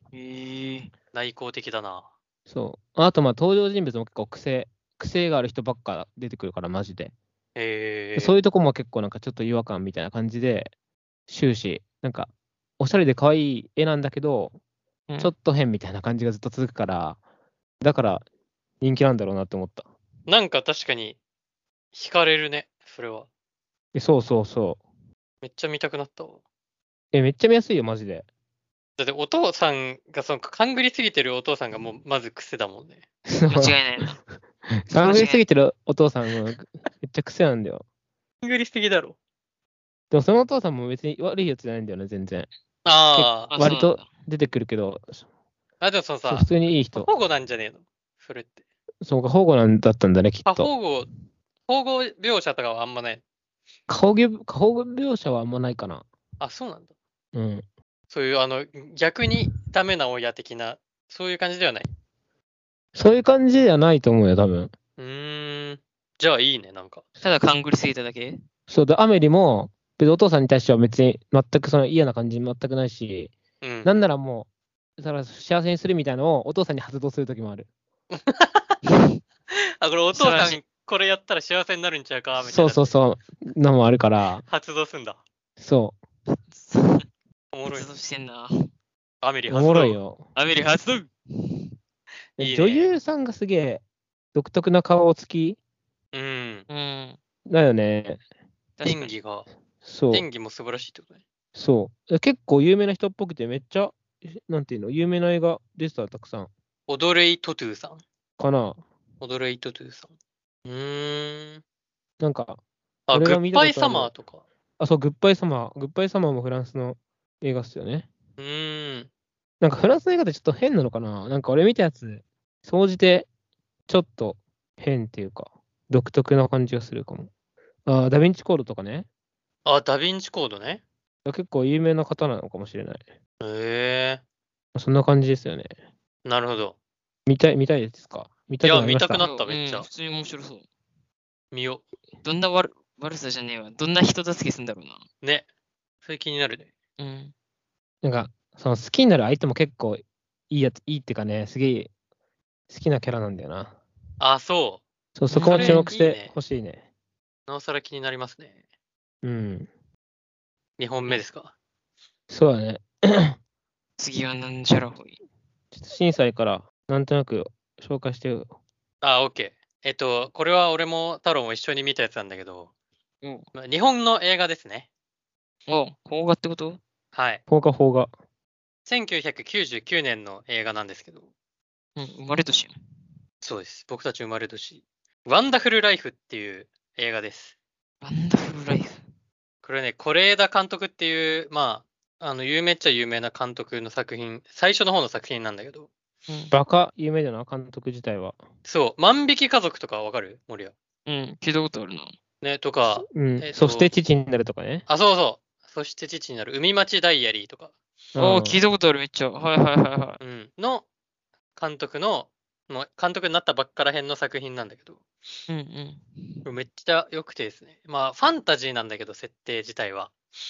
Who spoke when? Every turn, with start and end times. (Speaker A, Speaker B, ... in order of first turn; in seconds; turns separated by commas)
Speaker A: 0.1-0.9, Speaker B: 1.1-2.1, Speaker C: 2.5-7.1, Speaker B: 7.6-8.4, Speaker C: 8.2-10.7, Speaker C: 11.3-14.6, Speaker C: 15.2-17.2, Speaker C: 17.8-18.2, Speaker C: 18.8-19.9, Speaker B: 20.3-21.2, Speaker B: 21.9-23.3, Speaker C: 23.9-24.8, Speaker B: 25.4-26.4, Speaker C: 27.1-28.2, Speaker B: 29.0-33.0, Speaker C: 33.3-33.8, Speaker A: 33.5-34.2, Speaker C: 34.8-37.8, Speaker A: 34.9-35.4, Speaker B: 38.4-39.2, Speaker C: 40.1-42.5, Speaker B: 42.9-43.5, Speaker C: 43.1-45.2, Speaker A: 43.5-44.0, Speaker B: 45.8-48.6, Speaker C: 46.3-47.1, Speaker C: 49.0-50.7, Speaker B: 50.5-51.1, Speaker B: 51.7-53.2, Speaker C: 53.9-56.1, Speaker B: 56.4-56.9, Speaker C: 57.3-57.6, Speaker B: 58.1-61.9, Speaker C: 63.0-64.7, Speaker B: 65.0-67.0, Speaker A: 67.2-68.4, Speaker C: 68.7-73.3, Speaker B: 73.6-74.0, Speaker C: 73.8-77.7, Speaker B: 78.1-78.8, Speaker B: 79.5-82.9, Speaker A: 80.1-80.6, Speaker C: 82.4-84.4, Speaker B: 84.5-85.2, Speaker C: 85.6-86.0, Speaker A: 86.3-87.1, Speaker B: 87.5-87.9, Speaker A: 87.7-88.7, Speaker B: 89.2-90.0, Speaker C: 89.5-90.2, Speaker A: 90.4-91.7, Speaker B: 92.4-93.0, Speaker C: 92.4-93.8, Speaker C: 94.3-95.6, Speaker B: 96.1-96.7, Speaker A: 96.7-97.2, Speaker C: 97.5-98.2, Speaker A: 98.8-99.1, Speaker B: 98.8-99.5, Speaker C: 99.8-100.3, Speaker B: 100.1-101.2, Speaker C: 101.5-106.5, Speaker B: 106.9-108.0, Speaker C: 108.4-108.8, Speaker B: 109.2-110.1, Speaker B: 110.7-111.6, Speaker C: 112.2-112.6, Speaker B: 113.1-114.4, Speaker C: 113.1-114.1, Speaker C: 114.8-118.1, Speaker B: 118.4-119.1, Speaker C: 119.6-123.3, Speaker C: 123.9-127.3, Speaker C: 127.9-129.1, Speaker B: 129.6-130.8, Speaker C: 131.2-133.0, Speaker B: 133.4-134.2, Speaker C: 134.8-135.7, Speaker B: 136.2-136.8, Speaker C: 137.3-139.2, Speaker B: 138.6-139.9, Speaker A: 139.2-140.6, Speaker B: 141.5-141.8, Speaker A: 142.2-145.0, Speaker B: 146.0-146.7, Speaker A: 147.0-147.3, Speaker C: 148.0-151.9, Speaker C: 152.7-153.8, Speaker B: 154.2-154.8, Speaker C: 155.2-156.8, Speaker A: 155.3-155.9, Speaker B: 155.4-156.3, Speaker B: 157.5-158.6, Speaker C: 159.2-159.7, Speaker B: 160.8-161.5, Speaker C: 162.3-163.4, Speaker A: 164.0-165.2, Speaker C: 165.7-168.5, Speaker B: 169.0-172.7, Speaker A: 173.2-173.5, Speaker B: 173.6-174.9, Speaker A: 175.7-176.8, Speaker B: 177.1-177.4, Speaker C: 177.5-178.1, Speaker B: 178.9-181.2, Speaker A: 181.9-182.8, Speaker B: 183.4-187.6, Speaker A: 188.0-189.0, Speaker B: 189.6-195.9, Speaker A: 196.3-196.5, Speaker C: 196.5-198.4, Speaker B: 198.7-200.8, Speaker A: 201.1-202.1, Speaker B: 202.4-203.9, Speaker C: 202.9-204.8, Speaker B: 204.9-207.7, Speaker C: 208.1-208.6, Speaker A: 208.2-210.2, Speaker B: 210.2-210.8, Speaker B: 211.6-215.0, Speaker A: 215.5-216.3, Speaker B: 216.4-220.1